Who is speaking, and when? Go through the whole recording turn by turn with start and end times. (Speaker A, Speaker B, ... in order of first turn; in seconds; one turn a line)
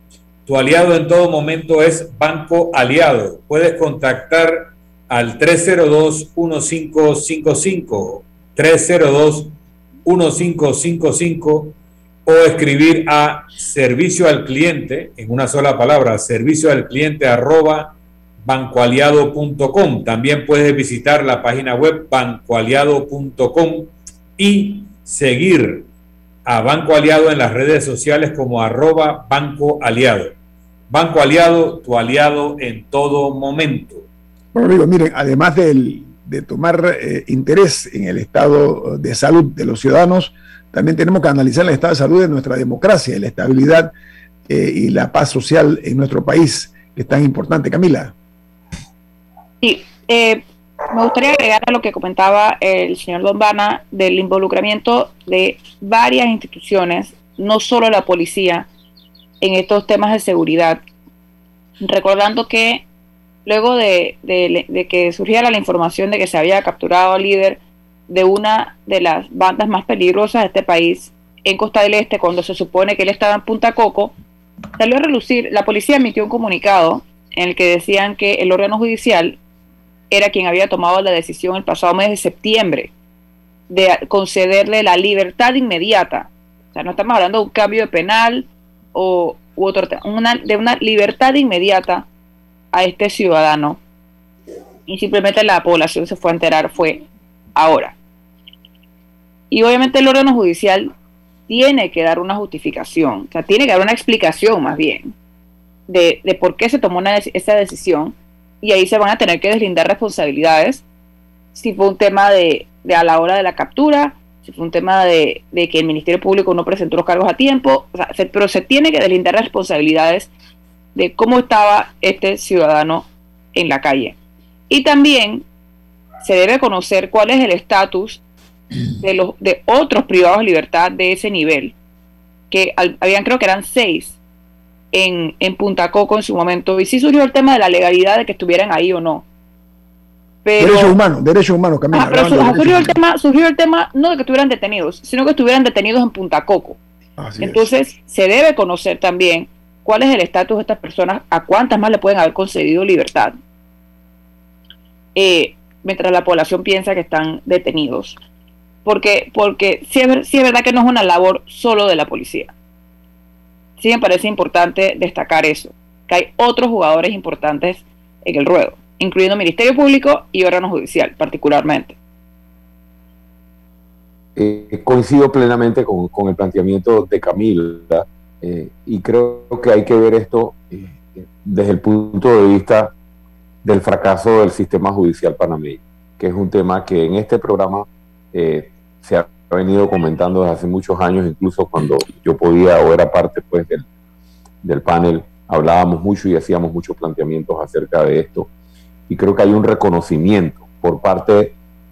Speaker A: 0.5-11.7
Speaker A: 12.2-25.9
Speaker A: 26.4-30.3
Speaker A: 30.9-34.0
Speaker B: 34.5-43.9
Speaker B: 44.5-48.1
Speaker C: 49.6-58.7
Speaker C: 59.4-60.8
Speaker C: 61.8-62.9
Speaker C: 63.5-74.1
Speaker C: 74.8-79.4
Speaker C: 80.1-82.9
Speaker C: 83.7-92.1
Speaker C: 92.7-93.8
Speaker C: 94.9-98.0
Speaker C: 99.5-100.9
Speaker C: 101.5-105.1
Speaker C: 105.9-110.8
Speaker C: 111.5-120.3
Speaker C: 120.9-124.2
Speaker C: 124.7-125.5
Speaker C: 126.2-128.2
Speaker C: 129.0-131.7
Speaker C: 132.5-134.2
Speaker C: 134.9-139.2
Speaker C: 140.4-140.9
Speaker B: 140.6-142.9
Speaker C: 141.9-146.8
Speaker B: 147.2-147.7
Speaker C: 147.4-153.3
Speaker C: 155.1-158.2
Speaker C: 158.8-162.5
Speaker C: 163.8-172.0
Speaker D: 174.4-182.9
Speaker D: 183.6-193.8
Speaker D: 194.6-198.5
Speaker D: 199.1-201.5